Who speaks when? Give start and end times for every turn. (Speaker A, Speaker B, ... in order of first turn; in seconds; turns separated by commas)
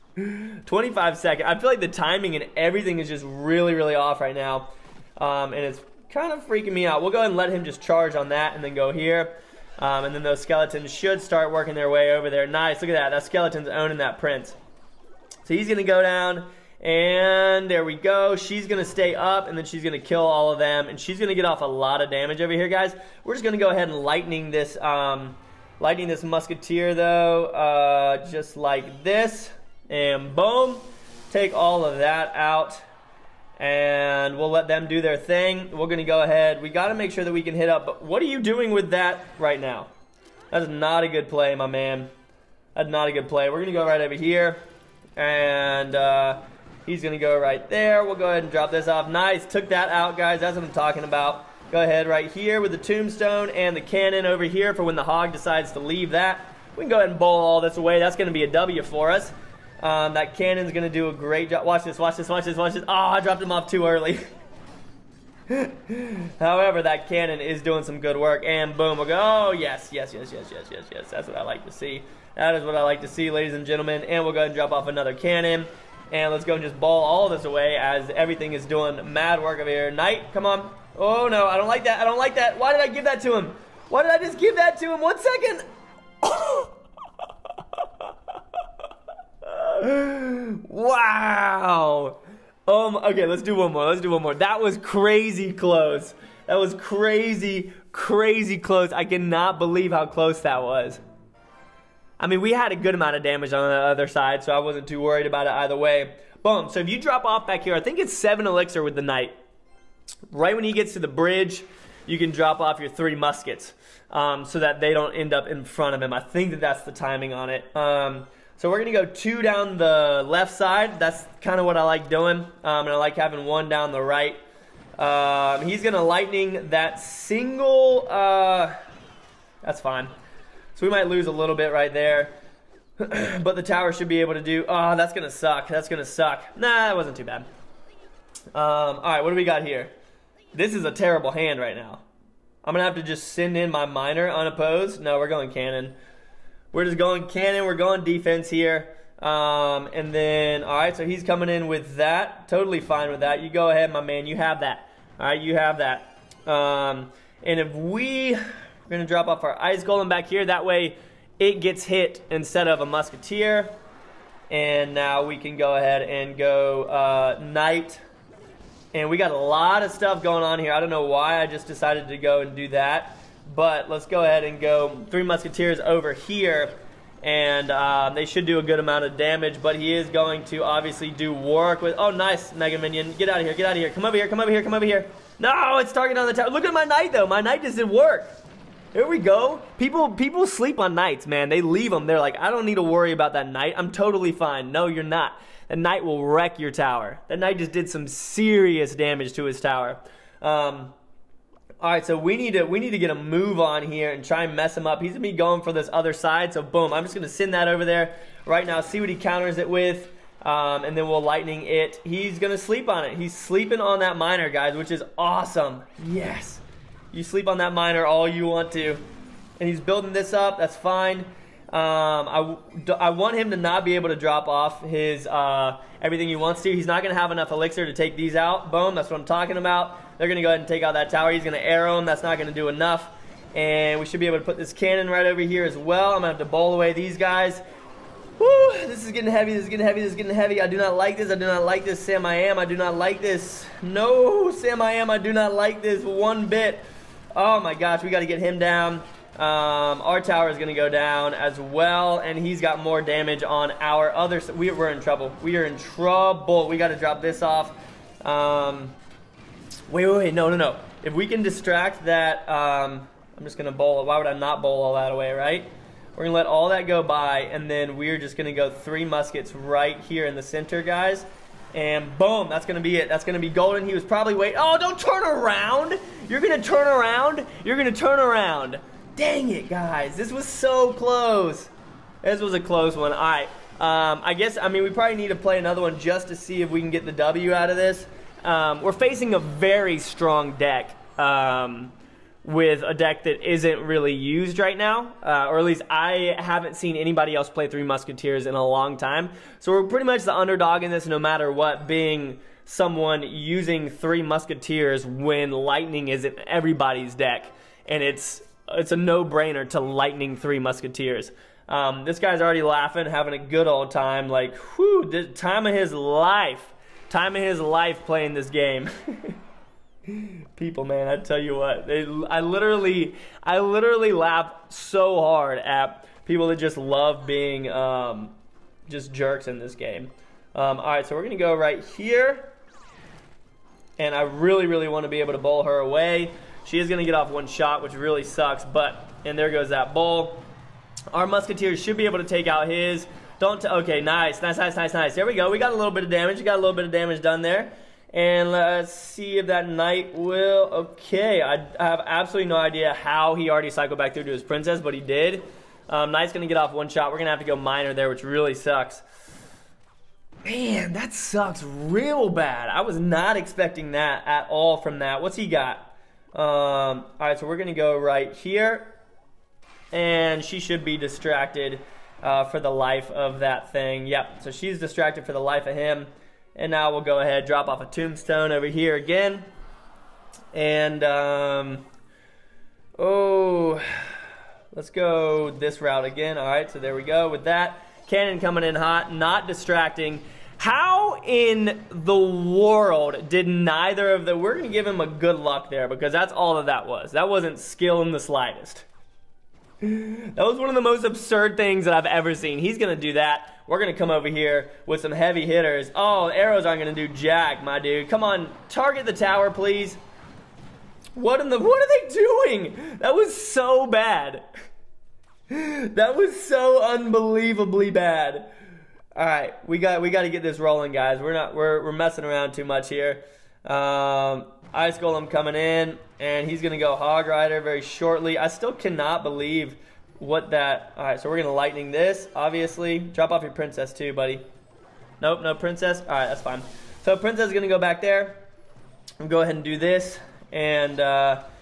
Speaker A: 0.2-14.6, Speaker A: 15.4-32.8, Speaker A: 33.6-39.9, Speaker A: 40.5-42.1, Speaker A: 42.8-44.6, Speaker A: 45.2-64.2, Speaker A: 65.5-85.6, Speaker A: 86.2-86.7, Speaker A: 89.4-101.0, Speaker A: 102.2-109.4, Speaker A: 110.3-124.4, Speaker A: 125.0-128.8, Speaker A: 129.6-130.1, Speaker A: 130.8-132.3, Speaker A: 133.0-137.5, Speaker A: 138.5-139.9, Speaker A: 140.5-142.0, Speaker A: 142.6-146.0, Speaker A: 146.7-163.8, Speaker A: 164.5-168.0, Speaker A: 168.9-188.4, Speaker A: 188.9-200.9, Speaker A: 201.8-219.0, Speaker A: 219.6-237.6, Speaker A: 238.4-246.8, Speaker A: 247.3-259.0, Speaker A: 259.9-281.7, Speaker A: 282.2-319.4, Speaker A: 320.1-328.4, Speaker A: 328.9-332.5, Speaker A: 334.0-340.4, Speaker A: 341.1-359.0, Speaker A: 360.4-368.9, Speaker A: 369.9-379.5, Speaker A: 380.5-381.9, Speaker A: 383.0-383.9, Speaker A: 384.7-398.9, Speaker A: 399.8-410.0, Speaker A: 411.1-414.5, Speaker A: 415.5-418.5, Speaker A: 419.1-434.4, Speaker A: 435.2-438.4, Speaker A: 439.2-441.4